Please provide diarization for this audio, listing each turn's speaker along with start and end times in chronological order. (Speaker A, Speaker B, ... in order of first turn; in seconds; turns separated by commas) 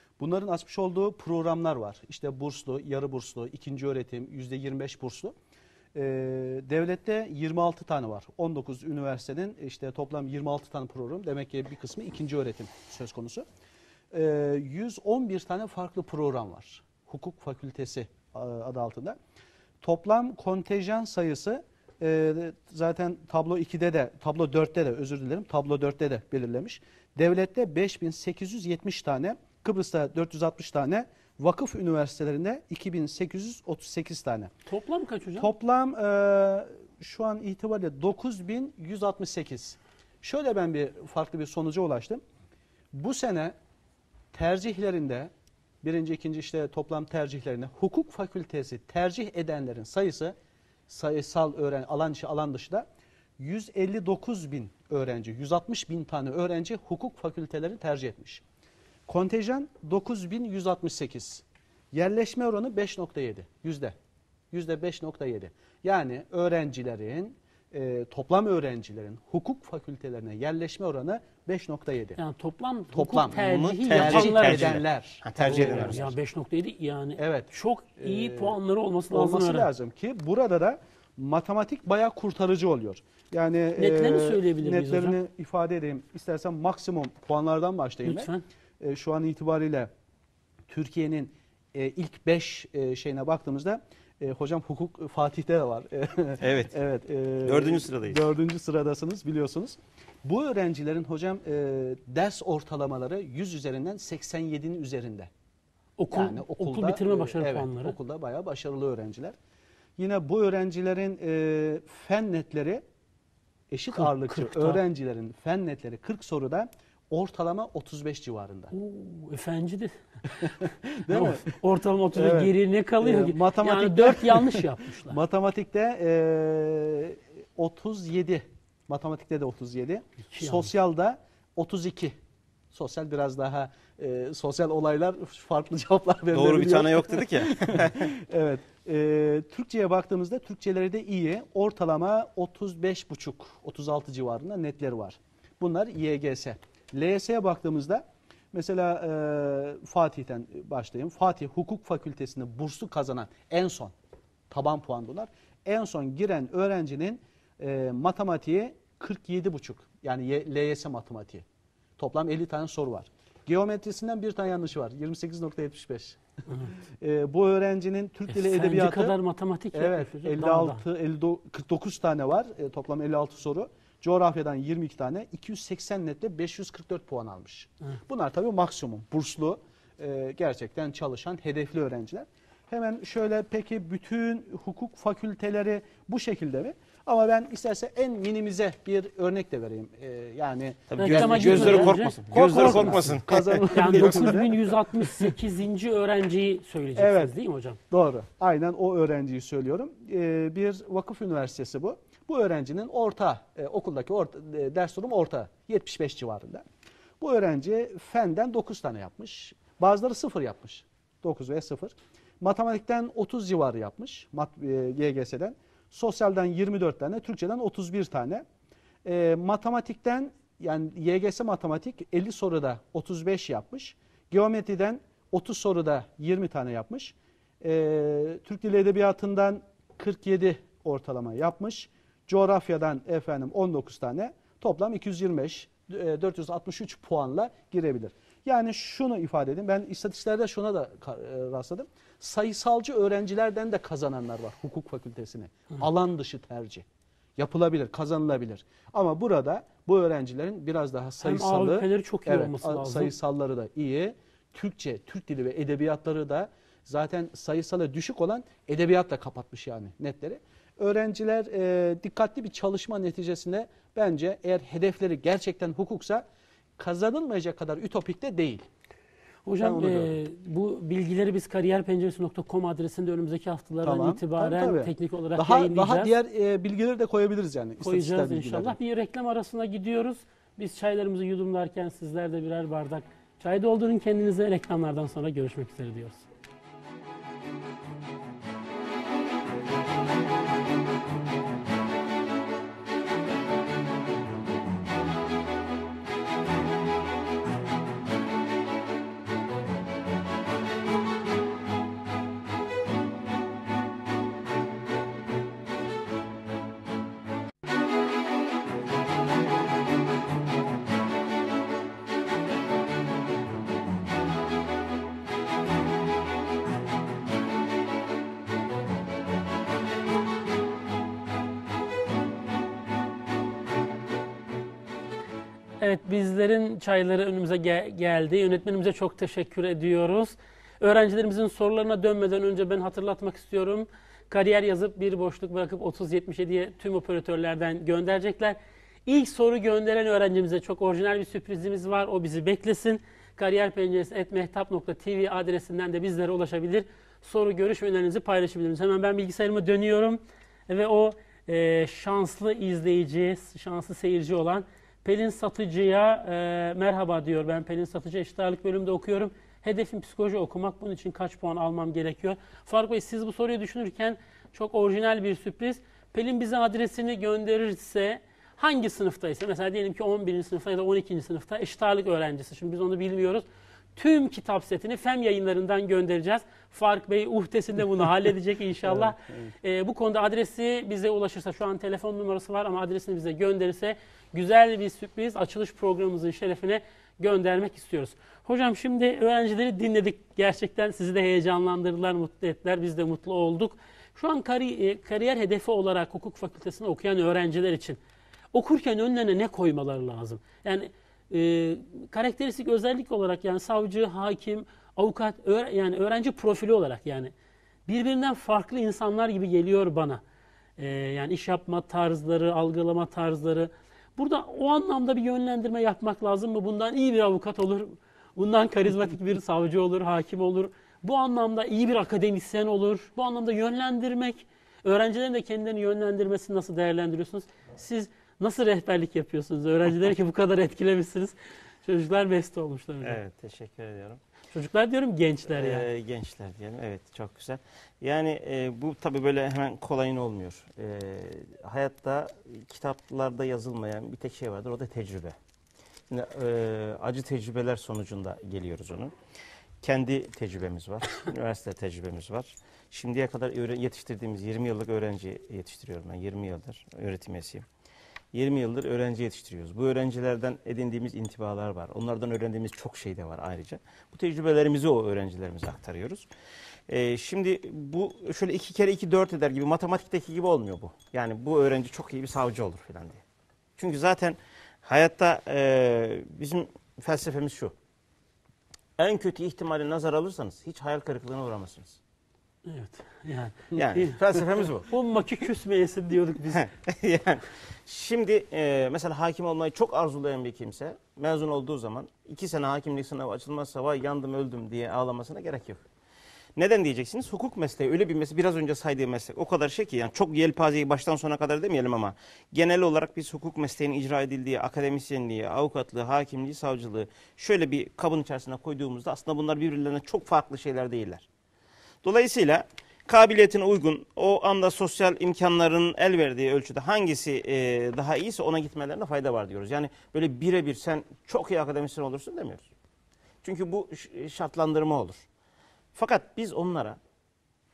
Speaker A: 0.2-5.3, Speaker A: 5.9-13.4, Speaker A: 14.1-19.2, Speaker A: 19.8-34.5, Speaker B: 34.7-35.5, Speaker A: 35.4-42.2, Speaker A: 42.9-43.5, Speaker A: 44.3-45.3, Speaker A: 45.8-50.3, Speaker A: 50.9-52.9, Speaker A: 53.4-58.4, Speaker A: 59.1-63.9, Speaker A: 64.5-72.2, Speaker B: 72.2-74.8, Speaker A: 72.9-76.1, Speaker C: 73.3-76.1, Speaker B: 75.4-79.7, Speaker A: 77.2-78.6, Speaker A: 79.1-89.9, Speaker B: 83.8-85.2, Speaker B: 88.0-88.5, Speaker A: 90.7-105.3, Speaker C: 96.4-96.7, Speaker C: 97.4-98.3, Speaker B: 106.0-108.0, Speaker A: 106.1-109.4, Speaker A: 110.0-112.8, Speaker A: 113.7-118.7, Speaker B: 113.9-114.8, Speaker B: 118.7-120.5, Speaker A: 120.4-121.5, Speaker B: 121.1-125.2, Speaker A: 122.1-132.2, Speaker B: 130.3-130.7, Speaker A: 132.7-153.9, Speaker C: 136.3-138.1, Speaker A: 154.5-161.4, Speaker A: 162.0-166.2, Speaker A: 167.0-169.2, Speaker B: 168.3-170.8, Speaker A: 169.7-194.7, Speaker C: 190.9-194.4, Speaker B: 191.0-193.2, Speaker B: 193.7-197.8, Speaker A: 197.0-197.3, Speaker A: 197.9-206.6, Speaker A: 207.2-218.4, Speaker A: 219.0-246.8, Speaker A: 247.4-266.2, Speaker B: 251.2-253.1, Speaker A: 266.8-268.6, Speaker B: 269.4-276.1, Speaker A: 269.6-270.2, Speaker A: 273.8-278.8, Speaker B: 277.8-286.2, Speaker B: 325.8-373.4, Speaker B: 374.0-398.0, Speaker A: 378.9-379.5, Speaker B: 398.5-407.3, Speaker B: 407.9-410.2, Speaker B: 410.8-433.2, Speaker C: 433.0-434.2, Speaker B: 434.5-435.9, Speaker C: 435.5-445.4, Speaker C: 446.1-449.1, Speaker C: 449.8-457.6, Speaker C: 458.3-466.3, Speaker C: 466.9-473.2, Speaker C: 473.8-477.7, Speaker C: 479.0-482.0, Speaker B: 482.6-486.7, Speaker C: 483.7-484.9, Speaker C: 486.5-495.8, Speaker C: 496.6-511.3, Speaker C: 512.0-522.7, Speaker C: 523.4-525.2, Speaker C: 526.0-527.0